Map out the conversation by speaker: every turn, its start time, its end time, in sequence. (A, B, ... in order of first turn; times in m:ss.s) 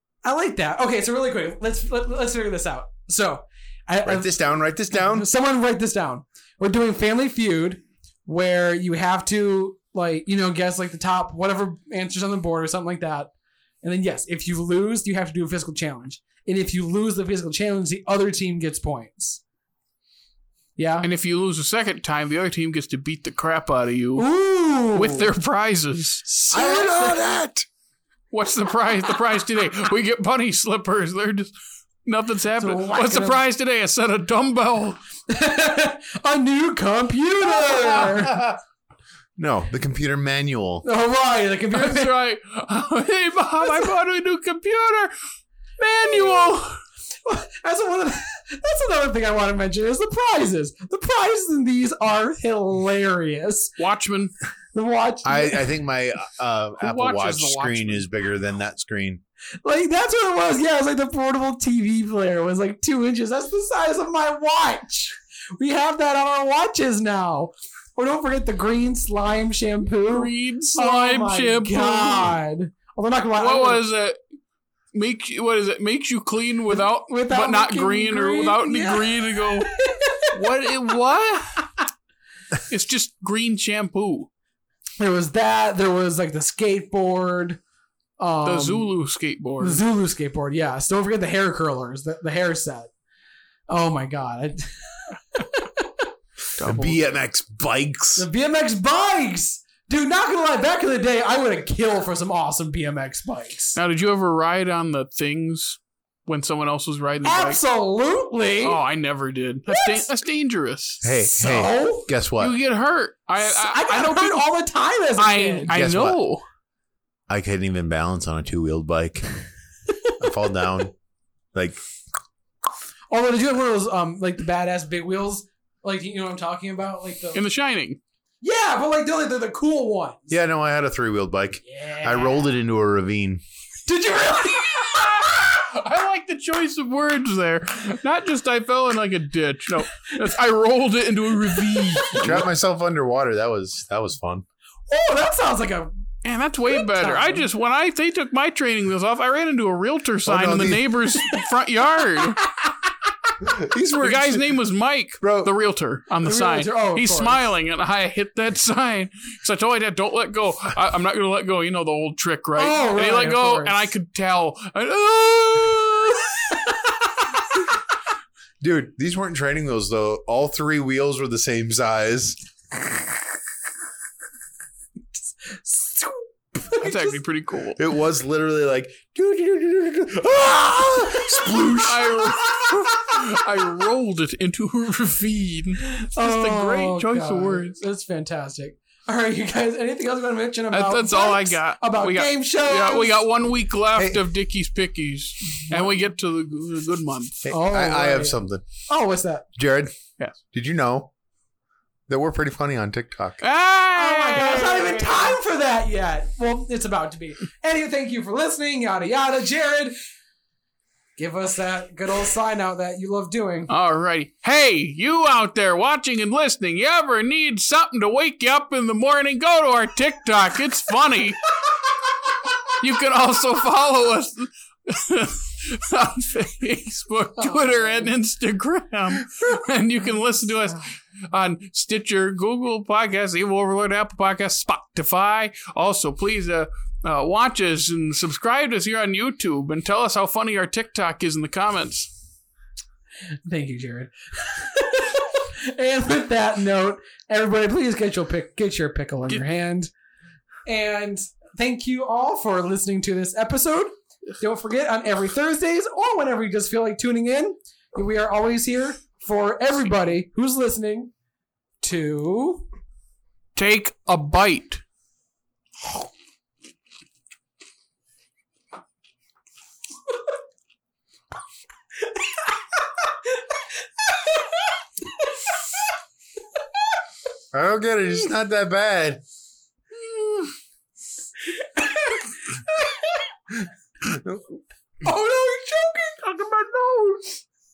0:00.2-0:04.4 A
0:04.0-0:05.3 B
0:04.9-0:13.3 A
0:13.8-0:19.4 A
0:20.8-0:21.1 A
0:21.0-0:24.3 C
0:24.2-0:25.3 A
0:24.9-0:26.4 C
0:26.4-0:27.7 B
0:26.5-0:27.3 A
0:28.3-0:35.0 C
0:32.5-0:33.4 A
0:35.3-0:38.5 A
0:39.4-0:40.8 B
0:40.8-0:42.2 A
0:41.7-0:45.1 C
0:45.8-0:46.8 C
0:47.2-0:53.7 A
0:53.8-0:54.3 C
0:54.7-0:55.6 A
0:55.2-0:59.2 B
0:56.8-0:58.1 C
0:59.6-1:13.8 A
1:10.1-1:12.4 C
1:13.4-1:14.2 C
1:14.9-1:19.7 C
1:16.7-1:20.2 A
1:20.3-1:21.6 C
1:22.7-1:24.3 C
1:25.0-1:27.6 A
1:28.2-1:28.9 A
1:28.4-1:29.8 C
1:29.6-1:32.9 A
1:33.7-1:36.0 A
1:36.6-1:37.2 C
1:36.6-1:38.3 B
1:38.2-1:43.8 A
1:43.7-1:47.6 C
1:47.2-1:48.8 A
1:48.6-1:51.0 C
1:49.7-1:50.1 A
1:51.0-1:52.6 B
1:51.1-1:52.1 A
1:52.4-1:54.5 C
1:53.4-1:55.7 A
1:55.2-1:56.4 C
1:55.7-1:56.2 B
1:57.3-1:59.3 B
2:00.2-2:00.9 B
2:01.5-2:01.8 B
2:03.1-2:07.4 A
2:07.3-2:08.0 C
2:08.4-2:10.3 A
2:10.3-2:13.4 B
2:11.6-2:12.5 A
2:13.8-2:15.4 A
2:14.7-2:22.4 C
2:21.5-2:22.3 A
2:22.1-2:24.4 B
2:24.9-2:25.9 A
2:26.2-2:32.4 C
2:26.7-2:27.5 A
2:30.2-2:31.0 B
2:33.4-2:34.6 B
2:34.0-2:46.6 C
2:35.2-2:35.5 B
2:36.2-2:37.4 A
2:42.6-2:43.8 A
2:48.6-2:52.4 B
2:55.5-2:57.2 A
2:56.8-2:57.8 C
2:57.8-3:02.2 B
3:01.7-3:07.8 C
3:05.9-3:13.2 A
3:10.7-3:17.4 C
3:14.0-3:14.2 B
3:15.7-3:16.0 A
3:17.4-3:18.7 B
3:17.5-3:19.5 A
3:19.6-3:19.9 B
3:20.5-3:21.1 B
3:22.1-3:23.4 B
3:23.4-3:25.4 C
3:23.9-3:30.0 A
3:31.2-3:33.7 A
3:33.7-3:41.5 C
3:42.7-4:02.1 C
4:03.4-4:09.9 A
4:10.6-4:21.1 A
4:21.8-4:22.7 A
4:23.6-4:24.8 C
4:37.5-4:39.2 B
4:41.8-4:43.0 A
4:44.0-4:44.4 B
4:45.0-4:46.2 A
4:46.2-4:47.4 C